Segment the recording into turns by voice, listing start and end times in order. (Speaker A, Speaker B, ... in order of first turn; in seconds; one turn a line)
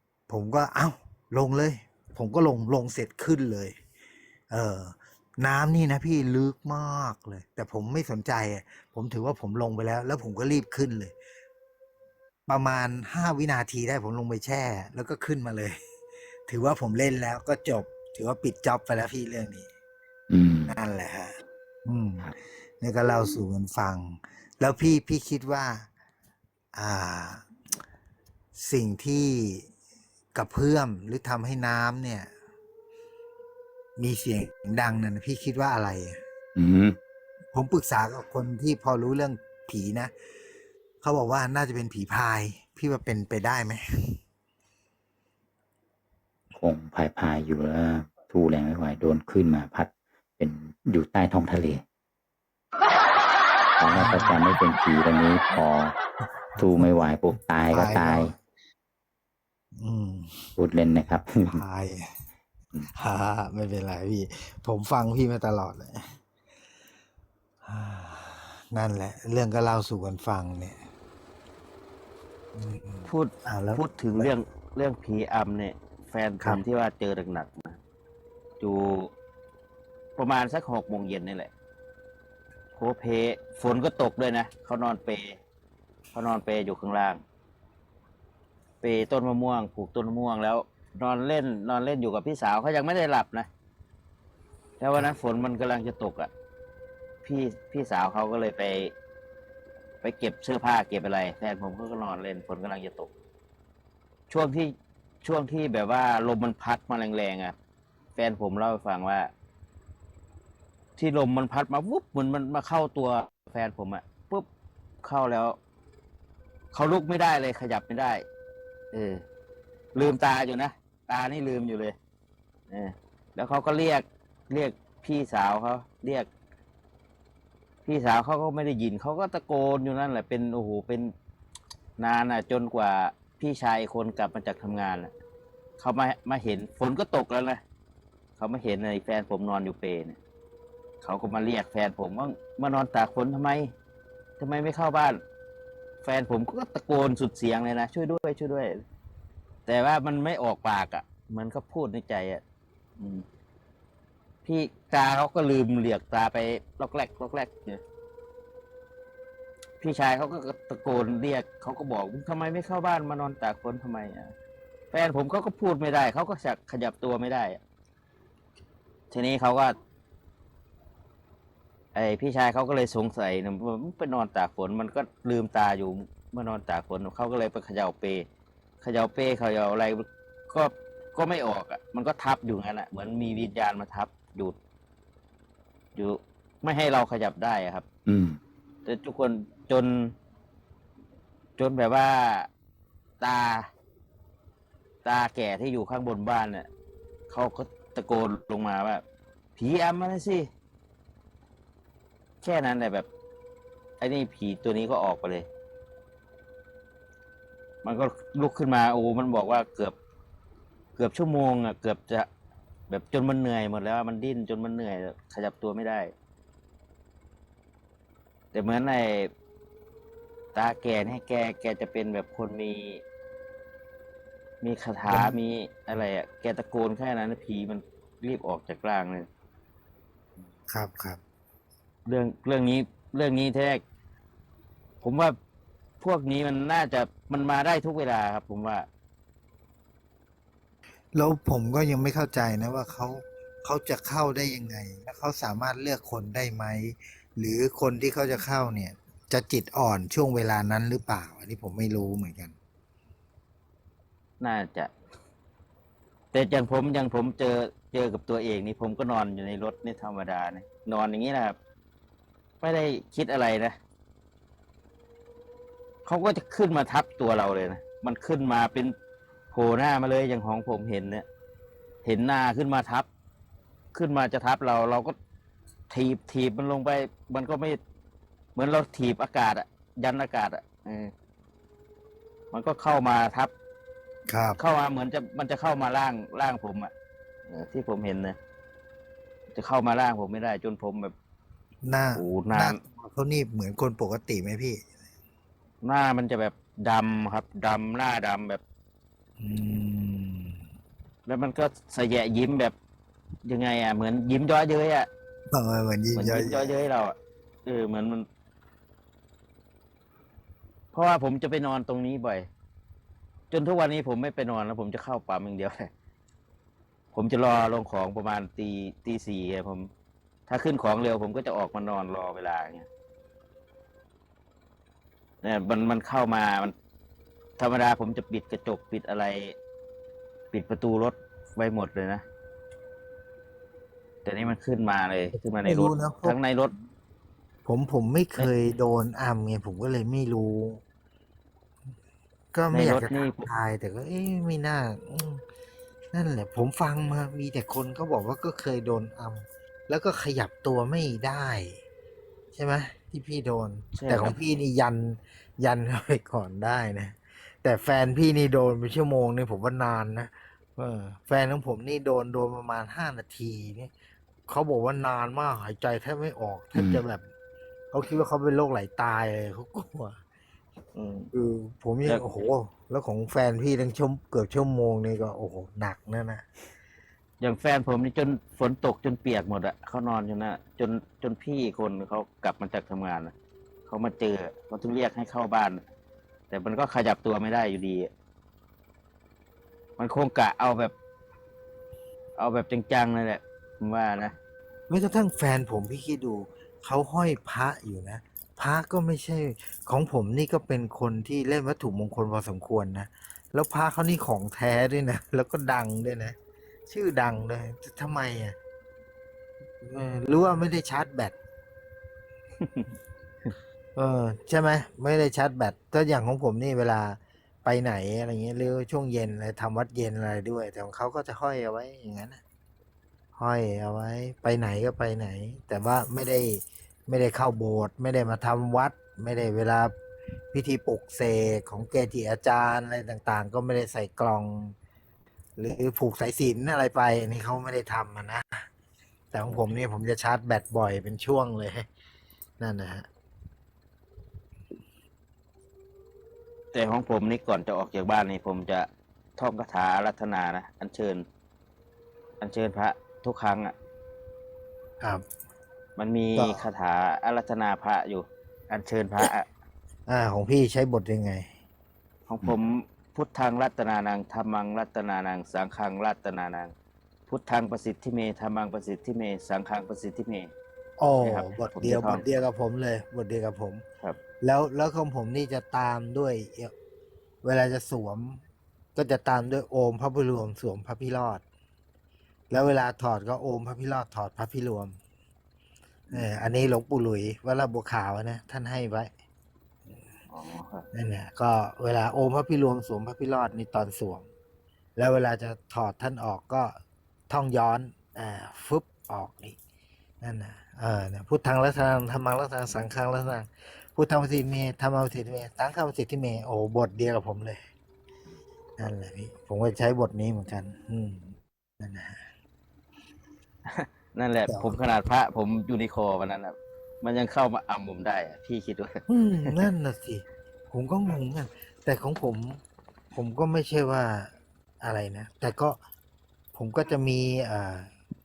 Speaker A: 0.3-3.7
Speaker A: 4.5-11.1
Speaker A: 12.5-15.8
Speaker A: 16.5-19.7
Speaker B: 20.3-20.7
Speaker A: 20.6-22.3
Speaker A: 22.8-25.9
Speaker A: 26.7-27.4
Speaker A: 28.6-29.7
Speaker A: 30.3-32.3
Speaker A: 34.0-36.2
Speaker B: 36.5-37.0
Speaker A: 37.5-40.1
Speaker A: 41.0-44.1
Speaker B: 46.6-51.8
Speaker B: 53.8-55.9
Speaker A: 53.9-54.4
Speaker B: 56.6-58.3
Speaker A: 57.7-58.3
Speaker A: 59.8-60.5
Speaker B: 60.6-61.6
Speaker A: 61.5-62.1
Speaker A: 63.0-66.0
Speaker A: 67.6-70.8
Speaker A: 72.5-74.3
Speaker C: 73.1-77.8
Speaker C: 78.6-79.1
Speaker C: 80.2-81.5
Speaker C: 82.8-85.3
Speaker C: 86.1-87.2
Speaker C: 88.8-93.5
Speaker C: 94.8-96.3
Speaker C: 97.2-98.9
Speaker C: 100.0-103.1
Speaker C: 104.3-107.5
Speaker C: 108.2-109.3
Speaker C: 111.0-114.5
Speaker C: 115.0-115.5
Speaker C: 116.7-118.2
Speaker C: 118.9-119.2
Speaker C: 119.9-121.9
Speaker C: 122.7-126.3
Speaker C: 127.8-131.1
Speaker C: 132.0-135.1
Speaker C: 135.8-137.6
Speaker C: 138.4-140.2
Speaker C: 141.0-143.7
Speaker C: 144.4-145.2
Speaker C: 146.0-148.7
Speaker C: 149.7-152.4
Speaker C: 153.0-153.2
Speaker C: 154.4-157.8
Speaker C: 159.8-164.3
Speaker C: 164.9-167.6
Speaker C: 169.1-169.7
Speaker C: 171.9-178.2
Speaker C: 178.8-184.6
Speaker C: 185.9-187.8
Speaker B: 188.1-188.4
Speaker C: 188.8-190.1
Speaker C: 191.6-192.5
Speaker C: 193.2-193.6
Speaker C: 195.0-196.7
Speaker C: 197.3-199.0
Speaker C: 199.6-200.5
Speaker C: 202.4-203.1
Speaker C: 204.0-205.5
Speaker C: 207.8-209.9
Speaker C: 211.0-212.3
Speaker C: 212.9-216.1
Speaker C: 218.5-219.3
Speaker C: 220.5-223.0
Speaker C: 224.6-229.3
Speaker A: 225.1-225.3
Speaker A: 230.7-231.2
Speaker C: 232.1-233.8
Speaker C: 235.0-235.3
Speaker C: 236.0-238.9
Speaker A: 241.1-252.6
Speaker C: 254.4-254.9
Speaker C: 256.3-261.6
Speaker C: 262.6-263.8
Speaker C: 266.0-268.9
Speaker C: 269.5-271.2
Speaker C: 272.0-273.1
Speaker C: 273.9-275.1
Speaker C: 275.9-277.8
Speaker C: 278.5-281.1
Speaker C: 282.5-283.5
Speaker A: 284.3-284.6
Speaker C: 284.6-286.9
Speaker C: 287.5-288.4
Speaker C: 289.5-291.1
Speaker A: 291.8-294.8
Speaker C: 292.1-292.8
Speaker C: 295.8-298.6
Speaker A: 299.4-300.6
Speaker C: 301.2-302.7
Speaker C: 303.4-305.1
Speaker A: 305.5-306.7
Speaker C: 306.1-307.1
Speaker C: 307.6-308.2
Speaker C: 310.9-312.4
Speaker C: 313.5-315.8
Speaker C: 317.1-319.9
Speaker C: 320.5-322.9
Speaker C: 325.4-326.7
Speaker C: 327.6-329.5
Speaker C: 330.5-332.2
Speaker C: 334.2-336.7
Speaker A: 335.6-336.4
Speaker A: 337.6-340.8
Speaker A: 342.5-345.4
Speaker C: 342.7-343.5
Speaker A: 346.1-351.8
Speaker A: 352.5-363.9
Speaker C: 353.9-354.4
Speaker A: 364.5-367.2
Speaker B: 366.7-367.0
Speaker A: 367.9-370.2
Speaker C: 370.9-371.3
Speaker A: 371.3-376.4
Speaker C: 377.4-383.3
Speaker C: 383.9-385.8
Speaker C: 386.5-388.1
Speaker C: 390.0-390.9
Speaker C: 392.4-394.3
Speaker A: 394.9-406.4
Speaker A: 406.9-408.6
Speaker A: 409.8-411.3
Speaker C: 412.6-412.9
Speaker A: 413.9-422.4
Speaker A: 423.3-429.9
Speaker A: 430.5-434.7
Speaker A: 435.6-438.6
Speaker A: 439.3-441.9
Speaker A: 442.6-443.1
Speaker C: 446.7-451.2
Speaker C: 452.4-453.7
Speaker C: 456.0-459.5
Speaker A: 456.4-456.6
Speaker A: 460.1-461.5
Speaker C: 462.3-466.7
Speaker C: 467.3-470.5
Speaker A: 471.0-473.8
Speaker C: 471.2-472.2
Speaker A: 474.4-476.7
Speaker A: 477.4-478.4
Speaker A: 478.9-481.4
Speaker A: 482.5-485.0
Speaker A: 486.1-489.1
Speaker C: 490.3-490.8
Speaker A: 490.9-494.3
Speaker A: 494.9-496.7
Speaker A: 497.3-499.6
Speaker A: 500.2-507.6
Speaker A: 508.8-512.2
Speaker C: 513.6-518.9
Speaker A: 514.5-514.8
Speaker A: 519.1-522.6
Speaker A: 523.1-525.8
Speaker A: 526.5-527.9